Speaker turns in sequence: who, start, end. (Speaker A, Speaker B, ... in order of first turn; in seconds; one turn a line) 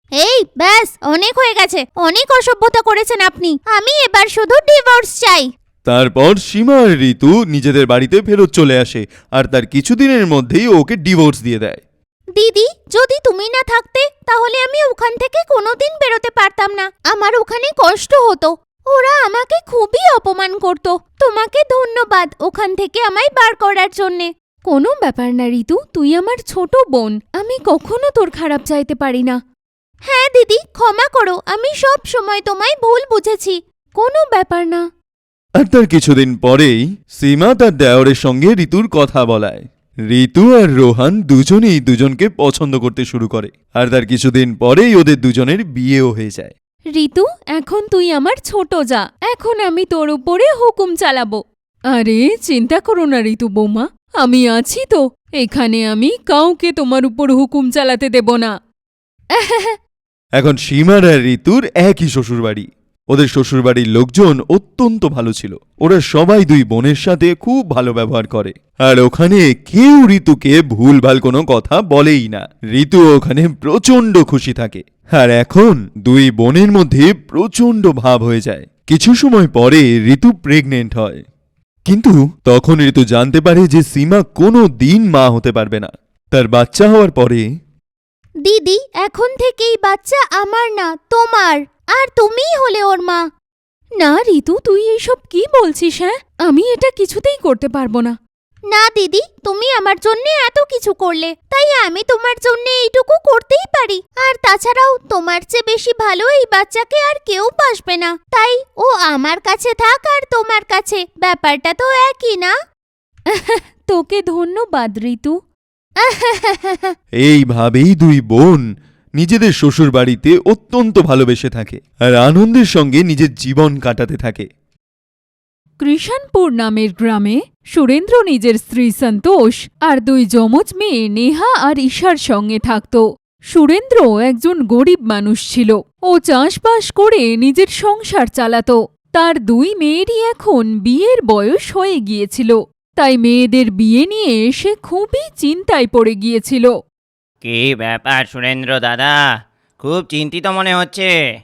Speaker A: 0.2-5.5
Speaker B: 5.8-11.8
Speaker A: 12.3-19.7
Speaker C: 19.3-29.4
Speaker A: 30.1-33.5
Speaker C: 34.0-34.8
Speaker B: 35.6-46.5
Speaker C: 46.9-58.5
Speaker C: 59.4-59.7
Speaker B: 60.4-81.2
Speaker B: 81.8-87.4
Speaker A: 88.4-93.2
Speaker C: 94.0-98.2
Speaker A: 98.7-112.5
Speaker C: 113.3-115.4
Speaker A: 116.0-116.9
Speaker B: 117.2-124.5
Speaker C: 125.8-146.7
Speaker D: 147.4-149.2
Speaker D: 149.8-151.1